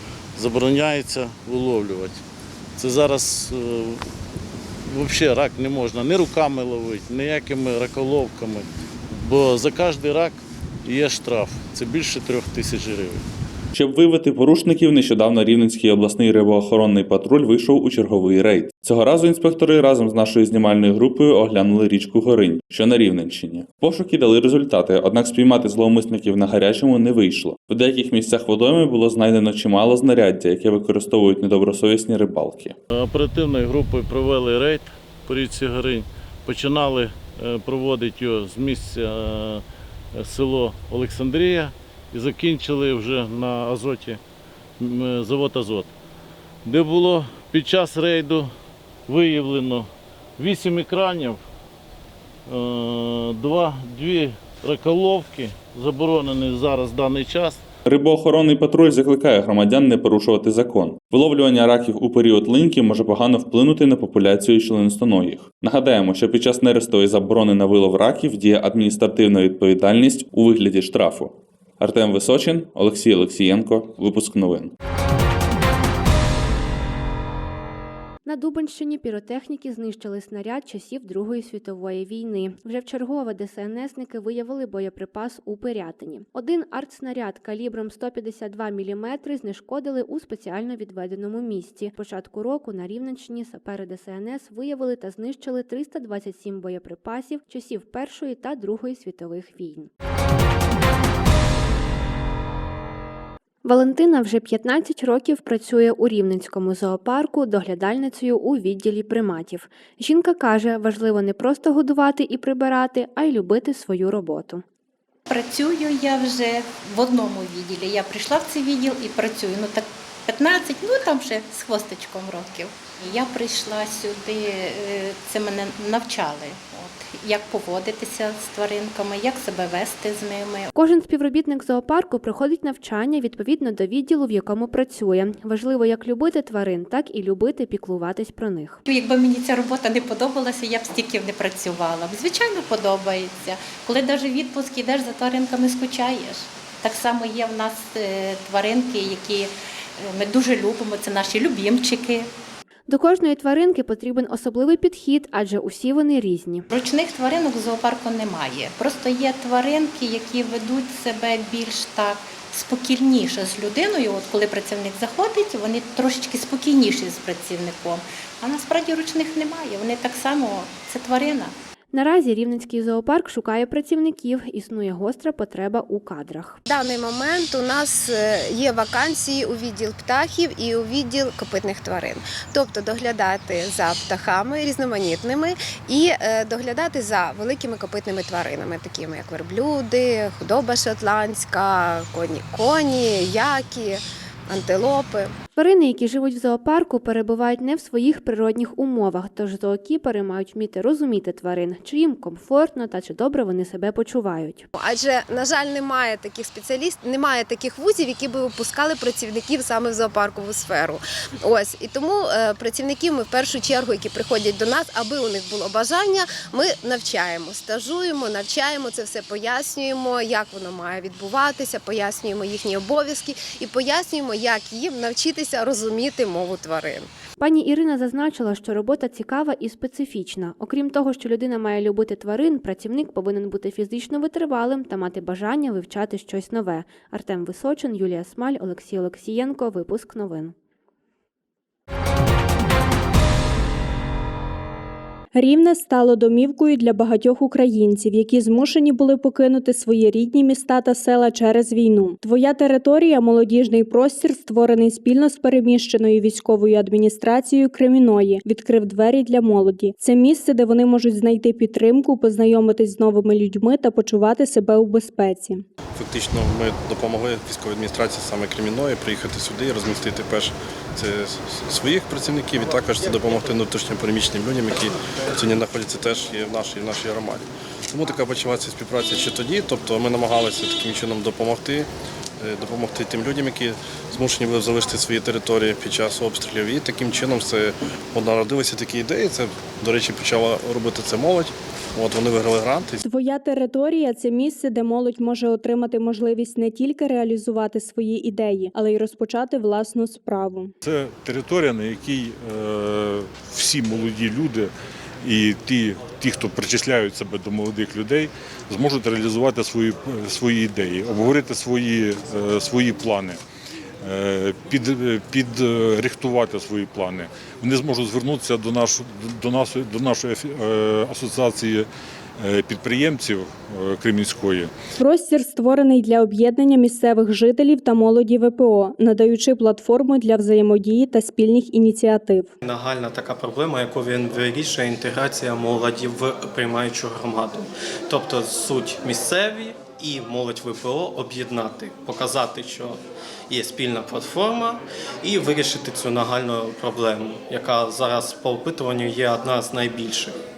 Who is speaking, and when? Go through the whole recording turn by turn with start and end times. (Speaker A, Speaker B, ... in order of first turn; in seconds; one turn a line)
Speaker A: 0.4-2.2
Speaker A: 2.8-4.0
Speaker A: 4.9-13.2
Speaker B: 13.7-32.8
Speaker A: 33.0-39.6
Speaker A: 40.1-44.2
Speaker A: 44.8-45.9
Speaker A: 46.6-48.5
Speaker A: 49.1-49.9
Speaker A: 50.4-51.4
Speaker A: 52.5-57.6
Speaker B: 57.9-74.7
Speaker C: 78.3-99.9
Speaker C: 103.6-114.6
Speaker D: 115.3-130.7
Speaker C: 130.8-138.8
Speaker D: 138.9-152.3
Speaker C: 152.9-156.7
Speaker D: 156.7-171.5
Speaker C: 171.9-176.6
Speaker E: 176.7-195.4
Speaker C: 195.6-204.7
Speaker E: 204.7-227.1
Speaker C: 227.4-240.5
Speaker F: 245.3-265.6
Speaker G: 266.0-293.0
Speaker F: 293.0-300.7
Speaker H: 300.8-313.4
Speaker H: 314.0-321.9
Speaker H: 322.4-324.7
Speaker F: 325.0-332.5
Speaker I: 332.6-350.4